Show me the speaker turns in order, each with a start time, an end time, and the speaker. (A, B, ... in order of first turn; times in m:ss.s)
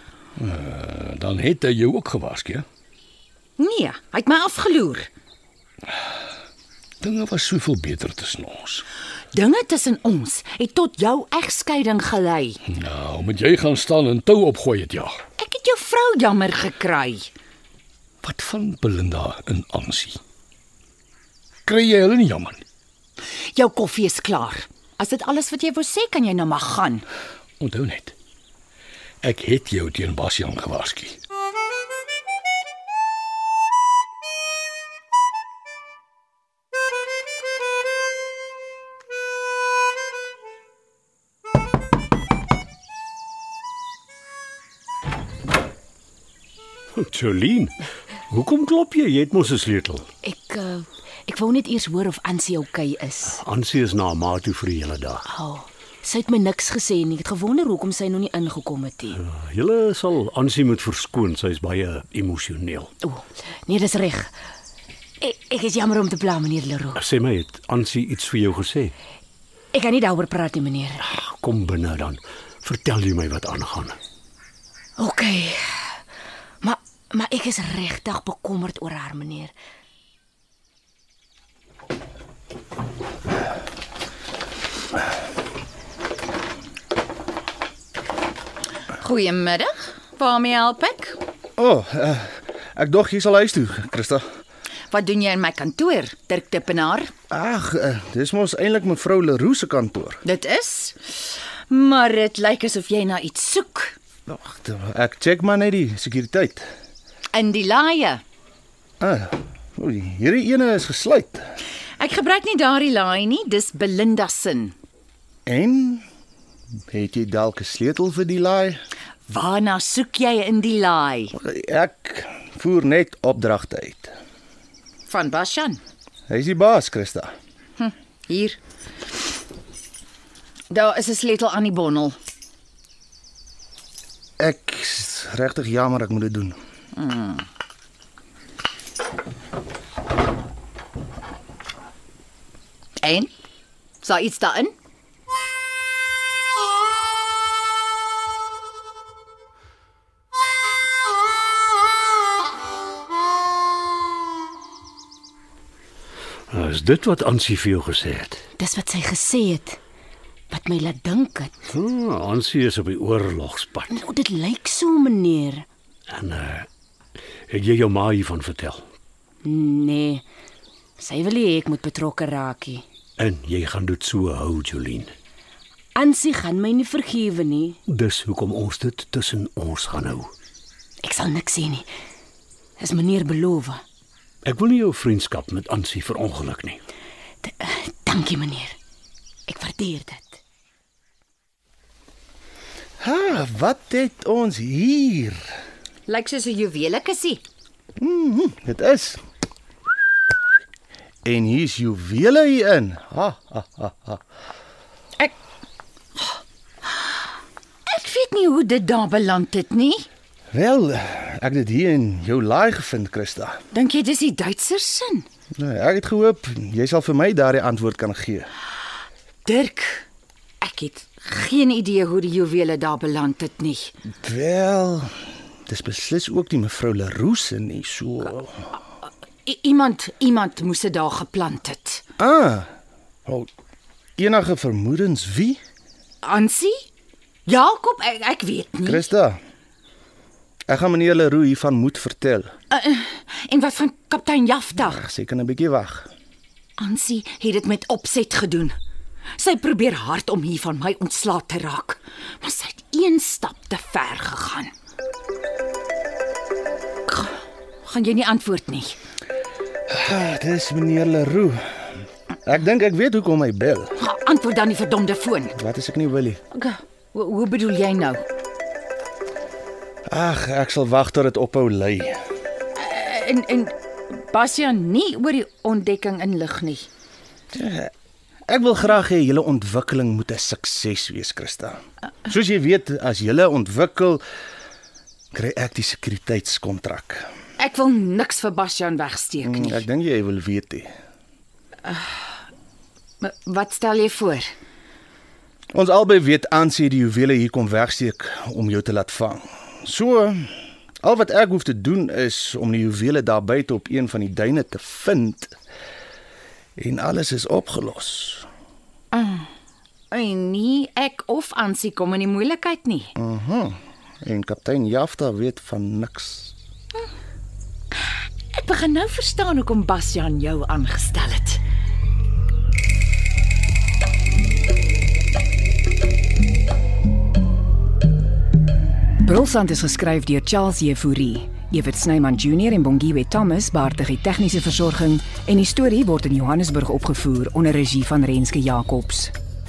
0:00.4-0:02.6 A
0:03.6-0:05.1 B
0:07.0-0:08.8 A
0:09.3-0:12.6 B
0:12.7-0:15.2 A
0:15.4-0:17.3 B
0:18.2-0:20.2 A
0:21.6-0:22.6 A
0:23.5-0:27.0 B
0:27.6-0:28.1 A
0:29.2-0:31.2 A
0:47.0-0:47.7 C
0:48.3-0:50.0 C
0:50.2-0:53.4 D
0:53.4-0:55.2 C
0:55.2-0:59.2 D
0:59.3-1:02.9 C
1:03.0-1:04.3 D
1:05.2-1:07.0 D
1:07.0-1:08.9 C
1:09.7-1:11.0 D
1:11.2-1:14.0 C
1:15.0-1:16.0 D
1:16.6-1:19.5 D
1:29.0-1:31.2 B
1:31.6-1:34.2 E
1:34.9-1:37.1 B
1:37.3-1:40.2 E
1:40.2-1:44.0 B
1:44.3-1:46.6 E
1:47.3-1:48.2 B
1:49.0-1:51.4 E
1:52.0-1:54.8 B
1:55.4-1:56.0 E
1:56.9-1:58.8 E
1:59.3-2:01.3 B
2:01.3-2:04.1 E
2:05.1-2:05.8 B
2:06.3-2:07.3 E
2:07.8-2:08.6 B
2:10.7-2:12.2 B
2:14.4-2:16.6 E
2:16.9-2:17.4 B
2:23.0-2:23.3 B
2:24.0-2:24.7 B
2:36.5-2:38.4 C
2:38.6-2:39.8 D
2:40.5-2:41.5 D
2:41.7-2:43.9 C
2:43.9-2:45.6 D
2:46.1-2:46.7 C
2:47.5-2:48.8 C
2:49.4-2:50.2 D
2:51.0-2:52.8 D
2:53.2-2:55.1 C
2:56.0-2:57.8 D
2:57.9-3:00.3 C
3:01.0-3:01.9 D
3:02.8-3:03.8 D
3:04.4-3:06.8 C
3:07.4-3:08.8 D
3:09.5-3:10.4 D
3:13.0-3:15.5 E
3:16.1-3:17.4 B
3:18.0-3:19.2 E
3:21.2-3:24.2 E
3:27.9-3:30.1 B
3:30.5-3:33.6 E
3:33.7-3:35.2 B
3:35.5-3:38.5 E
3:39.4-3:40.0 B
3:40.6-3:43.9 B
3:44.2-3:45.1 E
3:45.7-3:48.7 E
3:49.4-3:52.0 B
3:52.2-3:52.7 E
3:54.2-3:55.6 E
3:56.2-3:56.8 B
3:57.4-3:59.0 B
3:58.8-3:59.4 E
4:00.7-4:02.5 E
4:02.7-4:05.0 B
4:04.9-4:06.1 E
4:06.8-4:08.7 B
4:09.4-4:14.7 B
4:17.1-4:19.0 B
4:19.9-4:21.8 E
4:22.4-4:23.9 E
4:24.0-4:25.5 B
4:25.5-4:26.4 E
4:26.5-4:28.2 B
4:30.1-4:32.2 E
4:32.7-4:36.9 B
4:37.5-4:37.9 E
4:38.5-4:44.2 E
4:45.3-4:47.3 E
4:47.6-4:49.8 B
4:49.4-4:50.9 E
4:51.8-4:52.2 B
4:53.2-4:54.5 B
4:55.7-5:05.6 E
5:06.8-5:08.5 E
5:09.1-5:09.5 B
5:10.1-5:13.1 B
5:13.2-5:16.5 E
5:18.5-5:21.6 B
5:29.2-5:39.3 F
5:33.7-5:34.3 B
5:35.6-5:39.0 B